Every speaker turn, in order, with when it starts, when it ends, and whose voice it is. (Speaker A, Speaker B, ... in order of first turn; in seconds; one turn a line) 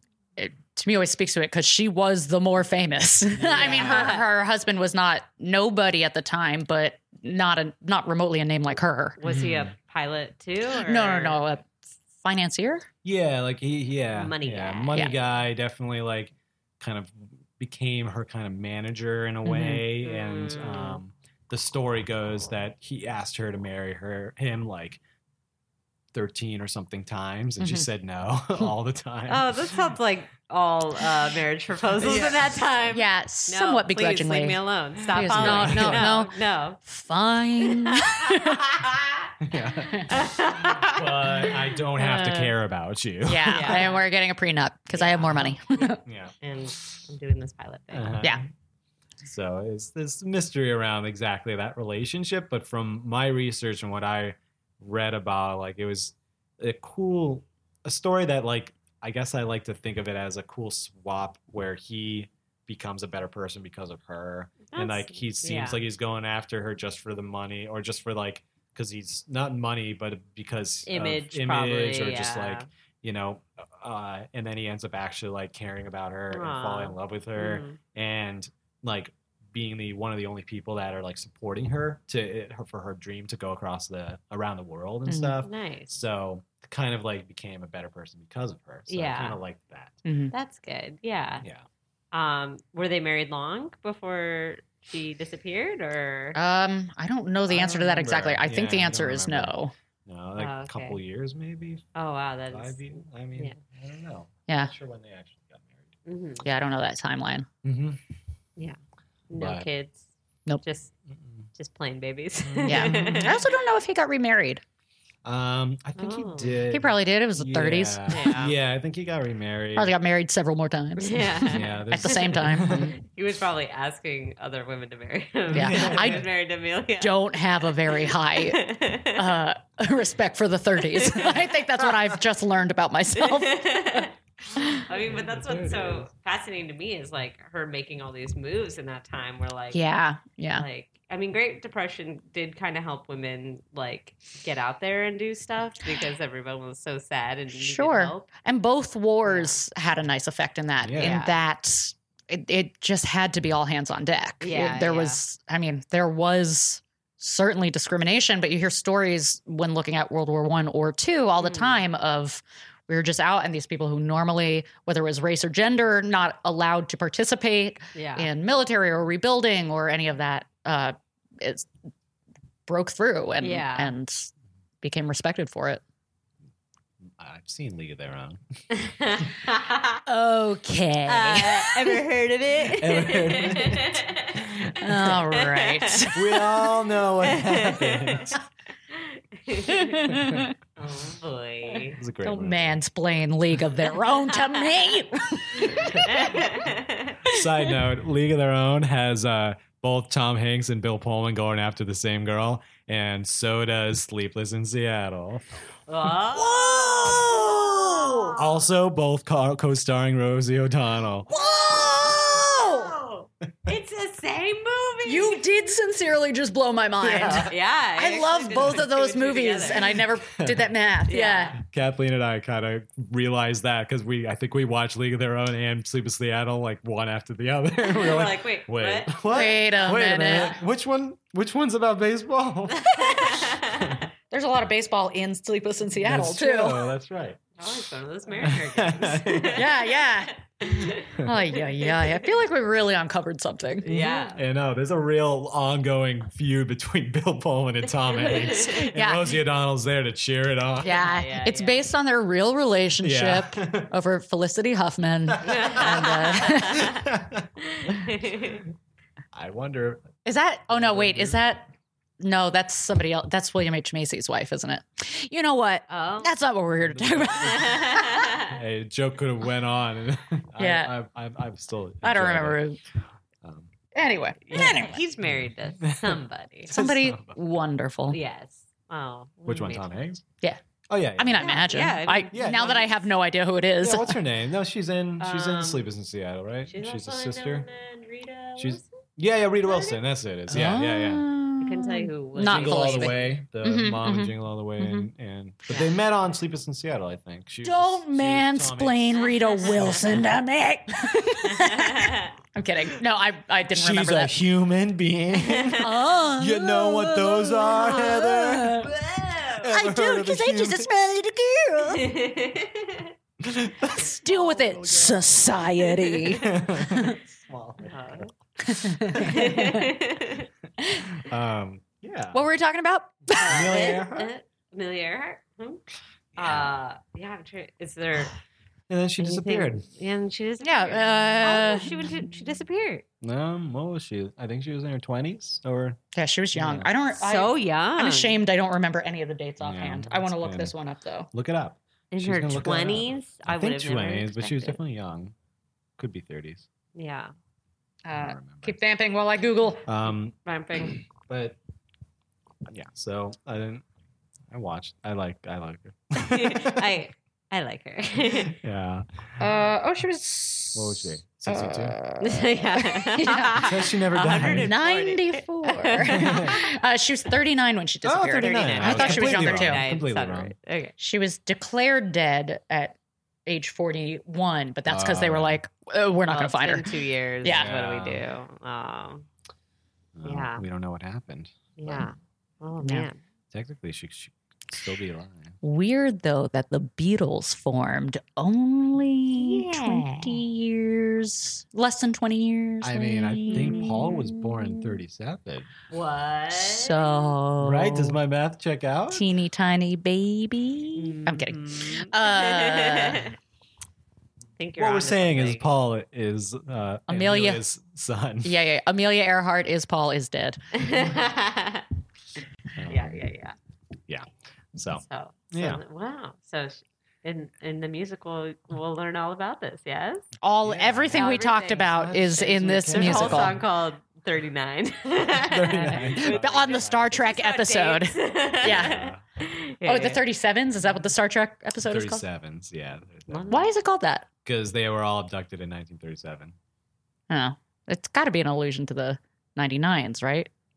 Speaker A: 0.4-9.2
Speaker B: 3.4-4.1
Speaker C: 3.5-4.2
Speaker C: 9.2-11.4
Speaker B: 9.2-9.7
Speaker A: 10.8-12.9
Speaker B: 13.0-25.0
Speaker C: 14.1-15.2
Speaker A: 19.4-19.8
Speaker C: 20.0-21.0
Speaker B: 26.1-29.8
Speaker A: 27.6-27.9
Speaker C: 29.3-36.8
Speaker B: 32.0-32.8
Speaker A: 32.9-36.3
Speaker B: 35.2-36.1
Speaker A: 36.8-38.6
Speaker C: 37.7-39.1
Speaker B: 39.4-43.9
Speaker C: 40.1-42.5
Speaker A: 43.3-46.0
Speaker C: 43.5-44.0
Speaker C: 45.0-45.5
Speaker B: 46.0-46.4
Speaker C: 46.4-48.1
Speaker B: 47.9-48.5
Speaker B: 49.2-90.0
Speaker C: 64.7-65.8
Speaker C: 70.9-72.7
Speaker C: 76.3-77.8
Speaker A: 85.1-85.4
Speaker C: 85.4-85.9
Speaker C: 88.9-89.4
Speaker A: 90.0-90.3
Speaker C: 90.3-91.4
Speaker C: 92.1-96.4
Speaker A: 96.4-99.7
Speaker B: 97.5-101.9
Speaker C: 100.4-101.0
Speaker C: 102.0-103.6
Speaker B: 102.5-105.9
Speaker C: 106.1-106.5
Speaker A: 106.4-107.5
Speaker B: 107.6-108.0
Speaker C: 109.3-110.1
Speaker B: 109.3-109.7
Speaker C: 110.6-110.9
Speaker B: 111.1-111.5
Speaker C: 111.5-113.4
Speaker B: 112.5-113.4
Speaker A: 112.7-114.6
Speaker B: 115.2-119.9
Speaker C: 116.0-116.6
Speaker A: 116.7-118.3
Speaker C: 118.1-118.6
Speaker A: 119.8-123.0
Speaker C: 121.0-129.3
Speaker B: 121.5-122.9
Speaker A: 125.5-126.3
Speaker B: 125.5-126.3
Speaker A: 127.0-134.1
Speaker C: 131.0-131.4
Speaker C: 133.2-139.8
Speaker B: 135.0-136.1
Speaker A: 139.7-140.7
Speaker C: 140.5-148.3
Speaker A: 147.6-171.7
Speaker C: 149.2-149.6
Speaker B: 150.8-151.2
Speaker C: 151.0-151.3
Speaker C: 154.4-155.2
Speaker C: 161.4-161.8
Speaker C: 167.9-168.3
Speaker A: 172.7-174.3
Speaker C: 173.4-173.9
Speaker A: 174.8-175.8
Speaker B: 177.2-178.4
Speaker C: 178.7-180.0
Speaker A: 180.1-182.0
Speaker C: 181.1-184.4
Speaker B: 182.7-185.2
Speaker A: 184.8-186.5
Speaker C: 185.1-186.2
Speaker B: 186.1-188.4
Speaker C: 187.2-188.4
Speaker C: 188.9-190.2
Speaker A: 189.8-190.5
Speaker B: 190.1-190.5
Speaker C: 190.8-192.0
Speaker B: 192.0-192.8
Speaker A: 192.2-196.4
Speaker C: 194.4-194.9
Speaker C: 195.6-197.2
Speaker B: 197.3-205.5
Speaker C: 205.9-208.4
Speaker A: 206.3-208.4
Speaker B: 208.4-211.3
Speaker A: 211.3-212.9
Speaker C: 211.3-215.4
Speaker A: 215.1-221.6
Speaker B: 217.0-217.5
Speaker C: 217.4-220.0
Speaker B: 218.5-218.8
Speaker B: 220.3-220.7
Speaker C: 221.1-221.6
Speaker B: 221.6-234.0
Speaker C: 227.8-229.9
Speaker A: 229.2-230.6
Speaker C: 232.8-234.1
Speaker A: 234.3-236.8
Speaker B: 236.0-237.4
Speaker C: 237.6-240.1
Speaker B: 238.4-239.6
Speaker A: 239.5-240.3
Speaker C: 240.6-241.2
Speaker A: 241.2-243.9
Speaker C: 241.8-242.2
Speaker C: 243.8-244.4
Speaker B: 243.8-251.0
Speaker C: 248.2-248.9
Speaker A: 248.6-249.4
Speaker C: 250.8-251.8
Speaker A: 250.8-256.9
Speaker B: 253.0-253.9
Speaker B: 255.3-257.5
Speaker C: 255.4-257.1
Speaker C: 257.6-258.6
Speaker B: 259.3-260.1
Speaker A: 260.2-261.7
Speaker B: 260.7-261.4
Speaker A: 262.2-268.3
Speaker C: 265.9-266.3
Speaker B: 266.8-267.9
Speaker C: 267.4-268.5
Speaker B: 268.5-272.6
Speaker A: 270.6-270.9
Speaker A: 272.0-272.8
Speaker B: 273.4-273.7
Speaker A: 273.9-275.0
Speaker C: 274.4-276.8
Speaker B: 274.5-277.4
Speaker A: 276.7-278.2
Speaker C: 278.1-279.9
Speaker B: 279.5-280.2
Speaker B: 280.9-282.9
Speaker A: 281.2-284.2
Speaker C: 281.4-282.9
Speaker B: 283.8-287.7
Speaker C: 285.2-285.9
Speaker C: 286.7-288.9
Speaker B: 288.6-291.2
Speaker A: 290.5-295.1
Speaker C: 291.6-293.3
Speaker B: 292.4-300.3
Speaker A: 297.6-304.3
Speaker C: 299.5-299.9
Speaker C: 301.5-302.3
Speaker B: 303.7-308.9
Speaker C: 305.4-305.9
Speaker A: 305.8-308.9
Speaker C: 308.8-309.7
Speaker B: 309.6-310.9
Speaker A: 309.7-312.1
Speaker C: 311.9-313.1
Speaker B: 313.4-315.6
Speaker A: 314.0-317.2
Speaker B: 316.3-318.3
Speaker C: 317.8-318.3
Speaker A: 318.7-319.9
Speaker B: 319.0-319.3
Speaker C: 319.1-320.5
Speaker B: 321.2-322.4
Speaker A: 322.3-323.9
Speaker C: 323.4-325.8
Speaker B: 323.4-324.3
Speaker C: 326.4-328.3
Speaker B: 326.4-326.8
Speaker B: 328.9-329.9
Speaker C: 329.2-333.1
Speaker A: 330.6-331.9
Speaker B: 333.2-336.0
Speaker A: 336.1-341.3
Speaker B: 336.5-336.9
Speaker C: 337.2-338.4
Speaker B: 339.6-340.7
Speaker B: 341.3-345.3
Speaker C: 342.1-344.8
Speaker B: 346.0-346.7
Speaker C: 346.9-347.3
Speaker A: 348.1-349.8
Speaker B: 348.2-348.8
Speaker B: 349.9-350.4
Speaker C: 350.4-351.0
Speaker B: 351.2-351.6
Speaker B: 352.7-353.8
Speaker B: 354.5-356.9
Speaker C: 356.2-358.5
Speaker B: 358.4-359.4
Speaker A: 359.4-369.9
Speaker B: 360.8-362.0
Speaker C: 362.2-366.6
Speaker B: 363.6-364.8
Speaker B: 366.1-366.6
Speaker B: 368.0-370.6
Speaker C: 368.4-370.9
Speaker A: 371.0-372.9
Speaker A: 373.5-377.7
Speaker B: 374.9-375.6
Speaker C: 376.3-379.2
Speaker B: 377.4-378.2
Speaker B: 380.1-382.0
Speaker C: 380.2-380.6
Speaker C: 381.8-383.2
Speaker B: 383.5-385.6
Speaker A: 385.6-395.0
Speaker C: 389.4-390.4
Speaker B: 392.8-395.7
Speaker C: 393.5-394.1
Speaker C: 395.9-397.4
Speaker A: 396.6-398.2
Speaker B: 397.6-399.3
Speaker A: 399.1-403.2
Speaker C: 400.9-403.4
Speaker C: 404.6-405.7
Speaker B: 404.8-408.6
Speaker A: 407.1-407.6
Speaker A: 408.4-410.6
Speaker C: 410.7-411.9
Speaker B: 412.8-413.2
Speaker C: 412.9-413.6
Speaker B: 414.1-415.8
Speaker C: 414.9-420.2
Speaker A: 420.4-423.6
Speaker B: 420.6-421.4
Speaker C: 421.1-421.9
Speaker B: 421.9-423.6
Speaker C: 422.9-430.2
Speaker B: 425.3-427.1
Speaker A: 426.1-429.1
Speaker B: 428.6-429.2
Speaker A: 429.9-432.2
Speaker B: 431.8-433.5
Speaker C: 433.3-433.7
Speaker A: 433.5-434.3
Speaker B: 434.4-436.6
Speaker A: 437.3-440.5